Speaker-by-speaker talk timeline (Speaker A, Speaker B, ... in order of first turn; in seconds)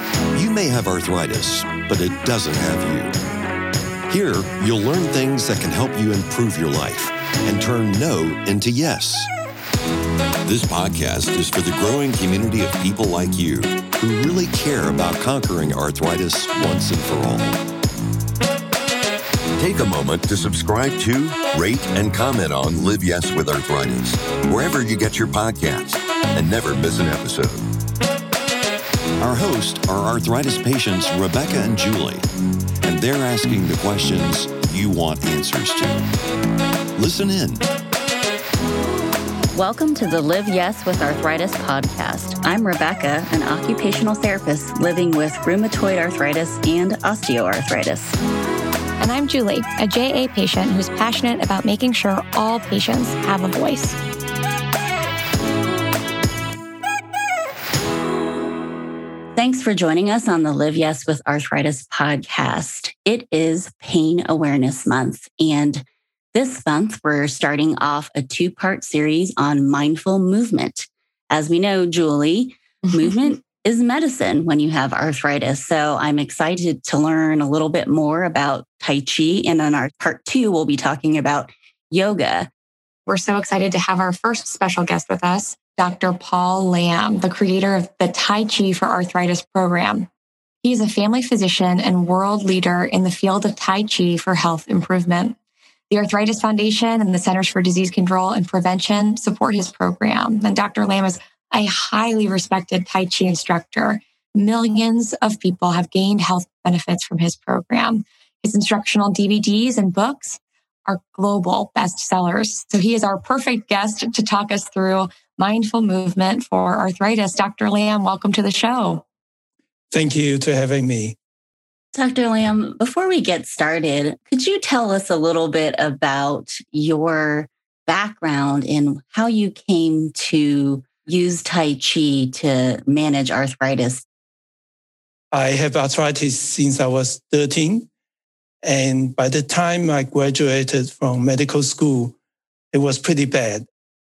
Speaker A: 0.3-3.1, 4.1-9.3, 10.4-17.6, 19.6-27.6, 29.2-32.3, 32.8-36.1, 37.0-37.6
Speaker B: 39.5-48.2, 59.4-82.5, 121.9-134.1
Speaker C: 49.0-54.0, 83.1-90.1, 90.6-95.4, 95.9-119.0
Speaker D: 119.9-121.2, 135.3-137.9, 138.6-142.2, 142.7-143.7